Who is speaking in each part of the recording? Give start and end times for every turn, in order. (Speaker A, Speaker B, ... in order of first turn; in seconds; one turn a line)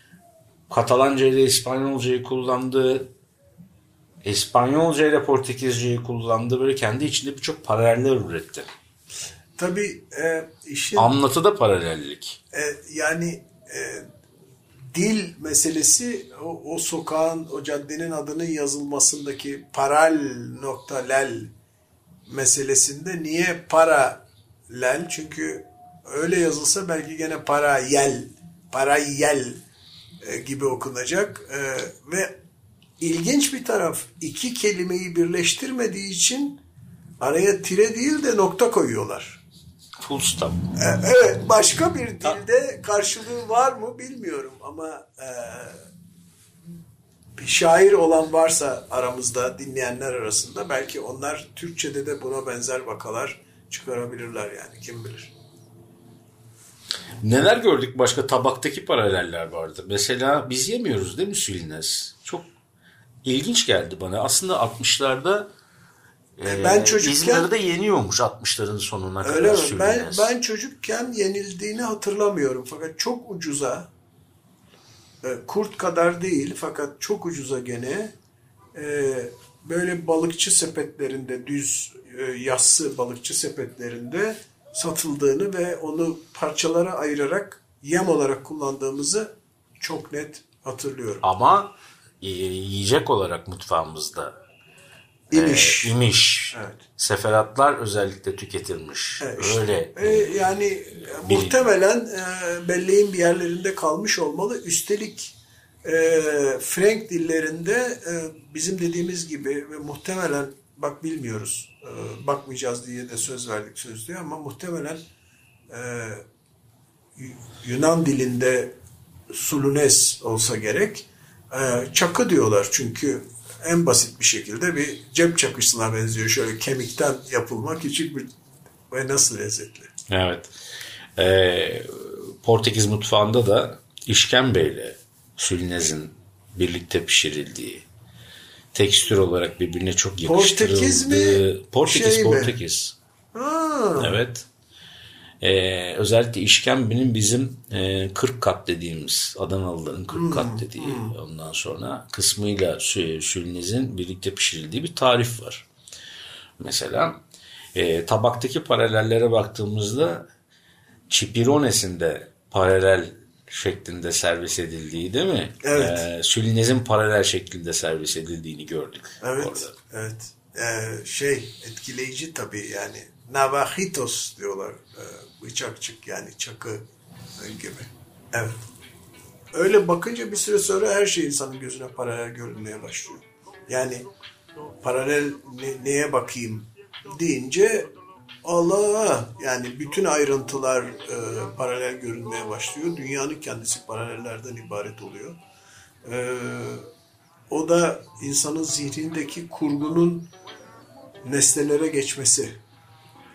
Speaker A: 0.7-3.1
Speaker A: 4.2-8.7
Speaker B: 9.6-11.1
Speaker A: 10.9-12.4
Speaker B: 12.5-14.1
Speaker B: 14.9-21.5
Speaker B: 22.3-29.6
Speaker B: 30.2-32.4
Speaker B: 33.0-36.6
Speaker B: 37.2-39.4
Speaker A: 40.0-40.6
Speaker B: 40.7-45.8
Speaker B: 47.4-55.3
Speaker A: 57.2-62.5
Speaker A: 63.2-65.5
Speaker A: 66.4-70.3
Speaker B: 66.5-67.5
Speaker B: 69.2-73.9
Speaker B: 75.2-78.1
Speaker B: 78.7-91.2
Speaker A: 91.2-94.3
Speaker B: 95.3-96.0
Speaker A: 95.3-100.4
Speaker B: 96.5-96.9
Speaker B: 99.2-115.0
Speaker A: 101.2-101.7
Speaker B: 115.7-116.2
Speaker B: 117.2-118.7
Speaker B: 119.3-128.3
Speaker B: 128.9-129.9
Speaker A: 130.1-130.5
Speaker A: 131.2-137.8
Speaker A: 138.7-142.9
Speaker B: 140.2-142.6
Speaker B: 143.3-144.2
Speaker A: 144.0-144.4
Speaker A: 145.4-155.7
Speaker B: 150.1-151.2
Speaker A: 156.6-157.2
Speaker A: 157.7-160.3
Speaker A: 161.1-169.7
Speaker B: 165.6-166.1
Speaker B: 169.2-176.8
Speaker B: 177.4-178.6
Speaker B: 179.5-184.1
Speaker B: 184.8-187.9
Speaker B: 188.4-195.4
Speaker B: 196.0-196.9
Speaker B: 197.5-200.3
Speaker B: 201.2-202.6